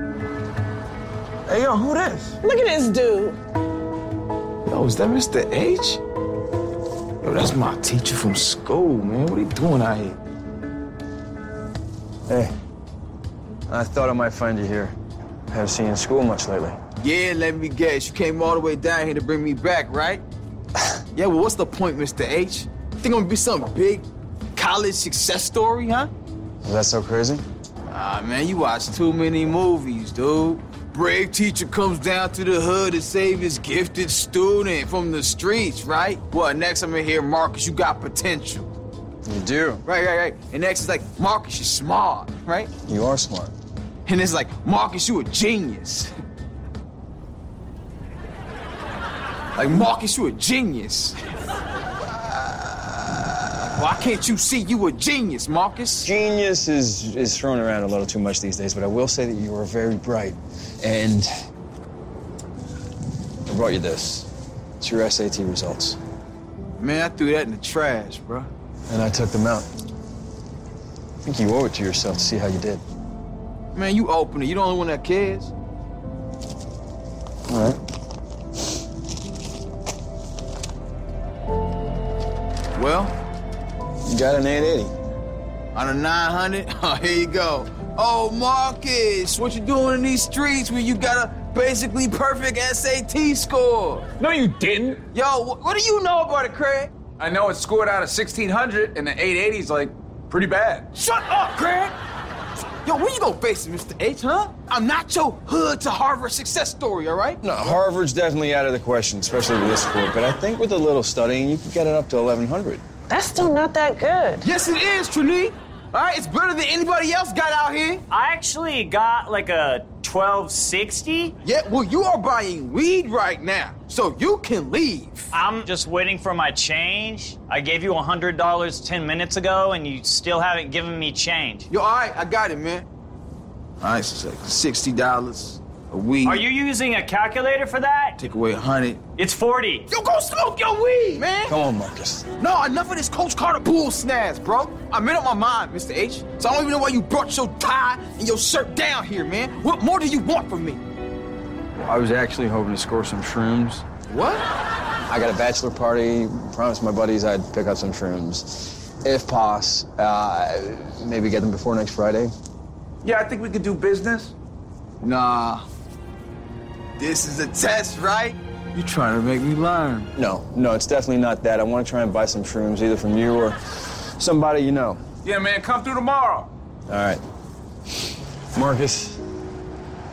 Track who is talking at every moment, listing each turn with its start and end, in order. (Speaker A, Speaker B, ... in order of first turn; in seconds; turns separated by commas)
Speaker A: 1.5-2.3, Speaker B: 2.4-3.4, Speaker A: 4.7-6.0, Speaker A: 7.2-10.2, Speaker C: 12.3-12.5, Speaker C: 13.7-14.9, Speaker C: 15.5-16.8, Speaker A: 17.0-20.2, Speaker A: 21.1-26.1, Speaker C: 26.6-27.4, Speaker A: 27.9-38.7, Speaker C: 39.2-39.8, Speaker A: 39.8-42.7, Speaker C: 42.8-43.5, Speaker A: 44.0-46.1, Speaker A: 49.5-51.1, Speaker A: 52.1-56.1, Speaker C: 56.0-61.3, Speaker C: 63.5-66.0, Speaker A: 66.8-68.5, Speaker C: 68.9-69.7, Speaker C: 71.2-72.8, Speaker A: 73.7-75.5, Speaker C: 77.5-77.8, Speaker A: 82.7-83.1, Speaker C: 84.0-84.9, Speaker A: 85.7-94.1, Speaker D: 94.2-95.0, Speaker A: 95.1-96.9, Speaker D: 97.2-100.9, Speaker A: 100.9-101.9, Speaker A: 102.8-107.8, Speaker C: 107.4-112.8, Speaker B: 113.1-114.4, Speaker A: 114.4-118.0, Speaker E: 118.1-121.3, Speaker A: 121.4-125.3, Speaker E: 125.3-131.7, Speaker A: 131.7-132.9, Speaker A: 133.8-136.4, Speaker E: 136.2-138.2, Speaker A: 138.2-139.1, Speaker E: 139.1-139.9, Speaker A: 139.9-141.5, Speaker C: 141.4-142.3, Speaker A: 142.4-150.8, Speaker C: 151.8-153.8, Speaker A: 154.1-154.4, Speaker C: 155.1-162.3, Speaker D: 163.0-164.3, Speaker A: 165.0-165.6, Speaker A: 167.0-170.1, Speaker C: 170.2-175.0, Speaker D: 175.2-176.5, Speaker C: 176.9-177.2, Speaker C: 178.5-179.2